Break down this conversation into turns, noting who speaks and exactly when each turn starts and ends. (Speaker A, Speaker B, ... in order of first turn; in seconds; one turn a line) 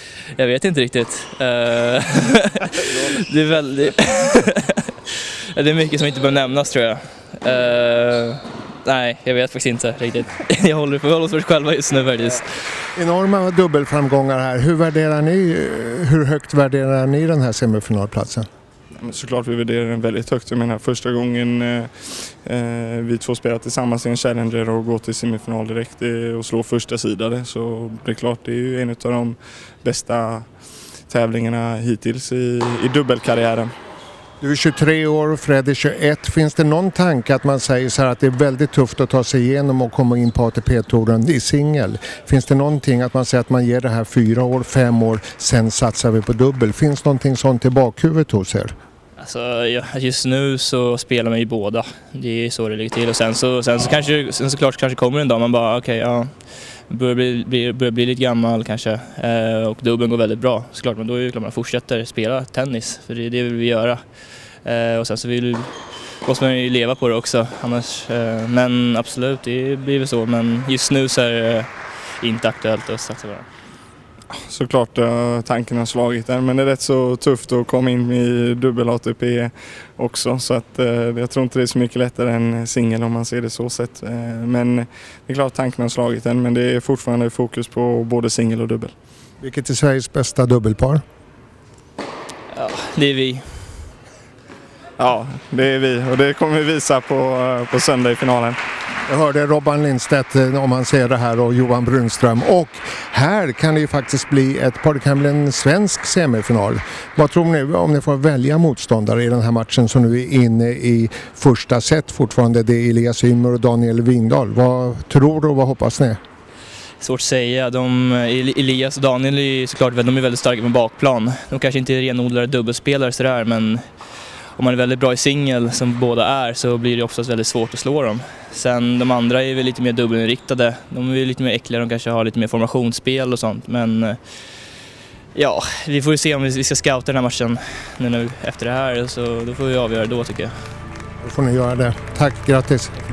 Speaker A: 0.3-12.6
Speaker B: 12.9-18.5
Speaker C: 19.0-30.5
Speaker C: 31.1-33.7
Speaker B: 34.4-48.7
Speaker A: 49.2-56.3
Speaker A: 56.9-64.0
Speaker A: 64.7-65.7
Speaker A: 66.2-73.5
Speaker C: 74.3-88.9
Speaker B: 89.4-91.0
Speaker A: 92.5-93.5
Speaker C: 95.0-98.6
Speaker B: 99.1-116.2
Speaker A: 117.0-123.8
Speaker A: 124.6-134.2
Speaker A: 135.3-140.5
Speaker B: 141.2-142.9